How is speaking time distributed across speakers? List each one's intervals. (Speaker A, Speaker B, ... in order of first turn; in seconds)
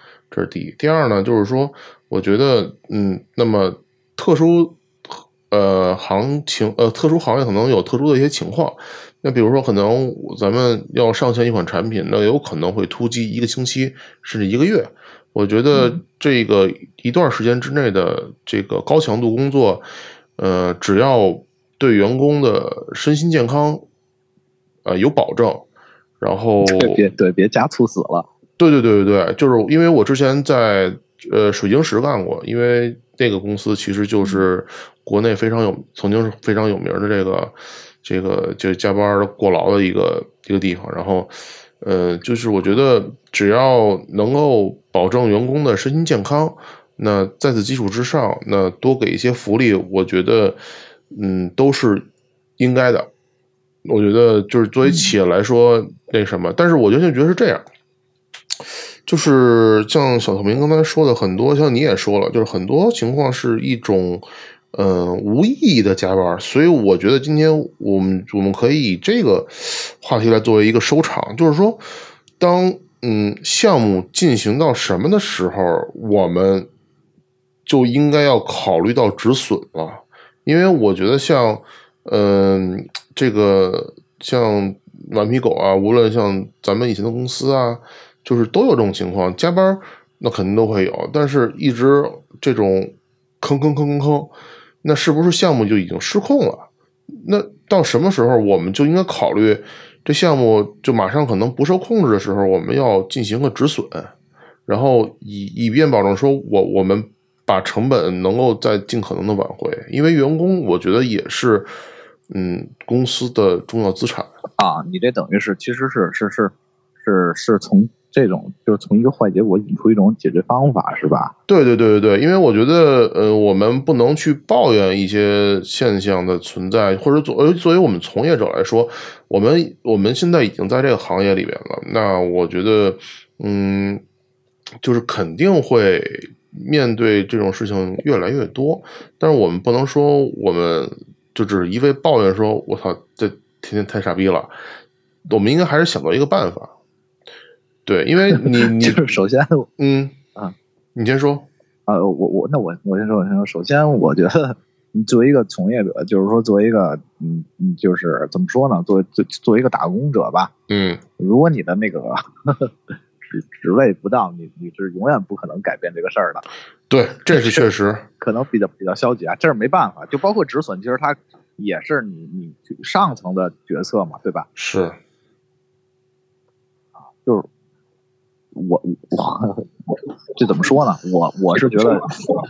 Speaker A: 0.3-19.8, 20.4-23.8, 24.8-25.6, 26.2-27.0, 28.6-50.6, 51.1-52.1, 52.6-53.1, 53.8-57.6, 59.1-71.8, 72.4-76.7, 77.7-104.1, 104.7-111.7, 112.3-114.3, 121.5-134.0, 134.8-144.5, 145.3-146.7, 147.8-149.1, 149.8-150.2, 150.9-151.5, 160.7-161.0, 166.9-168.1, 174.6-175.0
Speaker B: 26.6-28.3, 114.6-121.3, 148.3-149.7, 151.9-160.5, 161.2-166.4, 167.3-167.7, 168.2-174.5, 178.5-179.7, 180.3-182.2